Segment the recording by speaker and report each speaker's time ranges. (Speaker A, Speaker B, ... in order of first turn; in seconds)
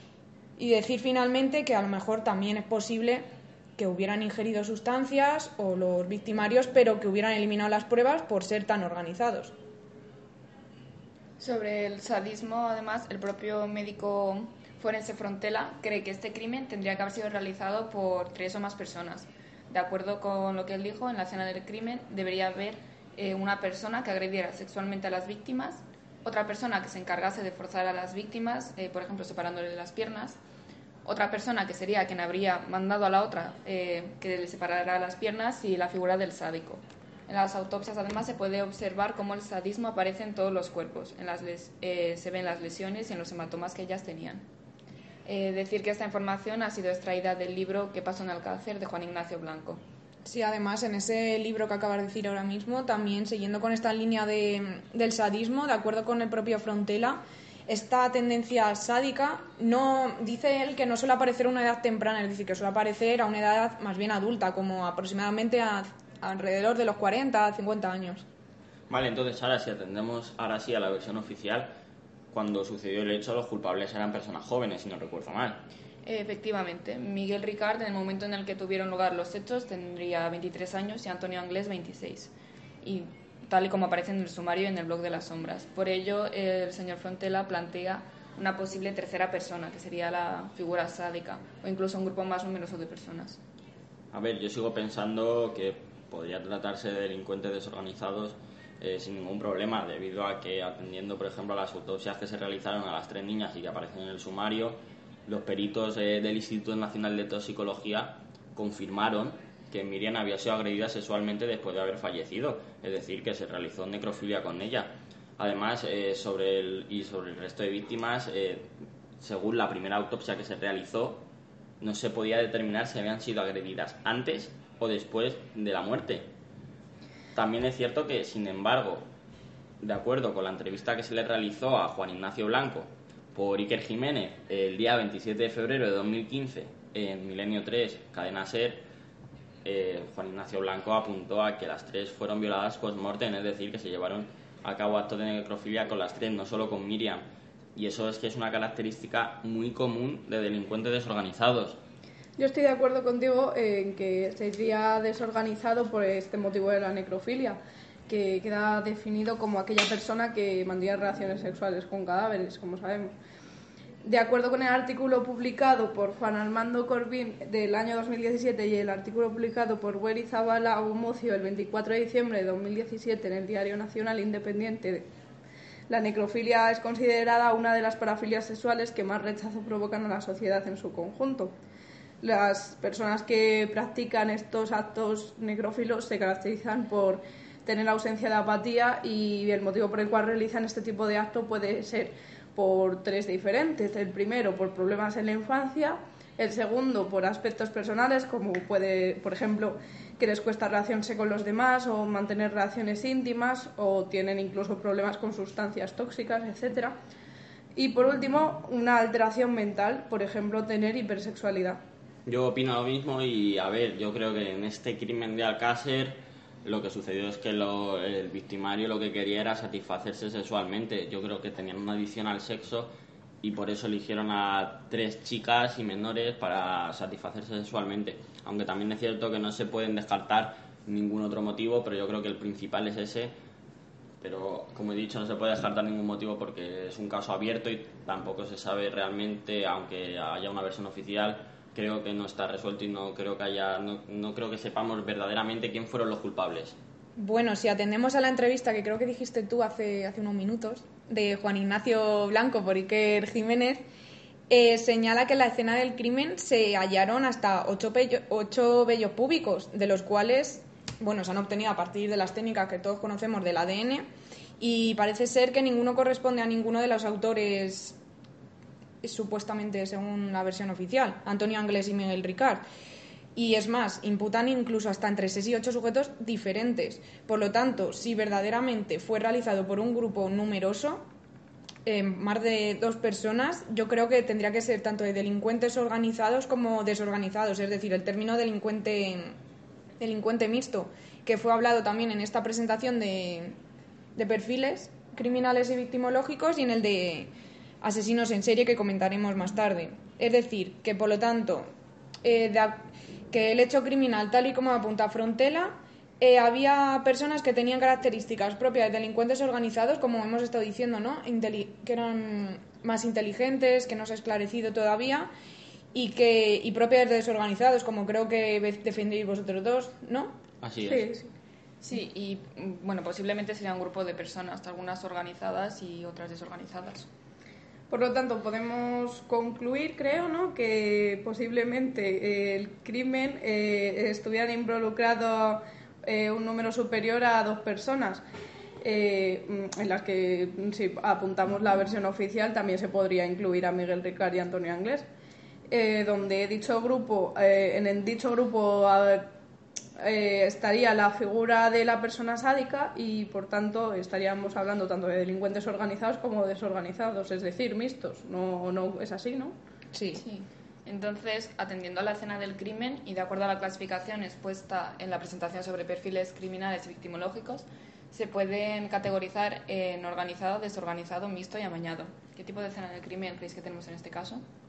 Speaker A: 0.6-9.5, 50.2-68.3, 247.2-253.8, 254.5-264.1, 264.6-268.0, 269.0-272.6, 273.4-281.0, 281.9-289.4, 290.0-293.6, 294.1-297.3, 297.8-301.7, 302.2-315.3, 315.9-320.4, 359.9-360.2
Speaker B: 11.4-30.4, 31.1-44.4, 45.3-49.8, 76.0-93.4, 321.8-327.1, 360.1-374.4
Speaker C: 68.9-71.7, 72.3-75.6, 94.1-121.3, 121.8-126.3, 127.3-129.1, 129.8-138.8, 139.6-147.2, 147.8-151.8, 212.3-222.9, 223.4-233.3, 234.2-246.8, 320.6-321.1
Speaker D: 152.4-163.1, 164.1-175.1, 175.9-181.5, 182.2-206.9, 207.8-211.8, 320.9-321.3, 327.9-338.2, 338.8-345.1, 345.7-349.3, 350.0-359.5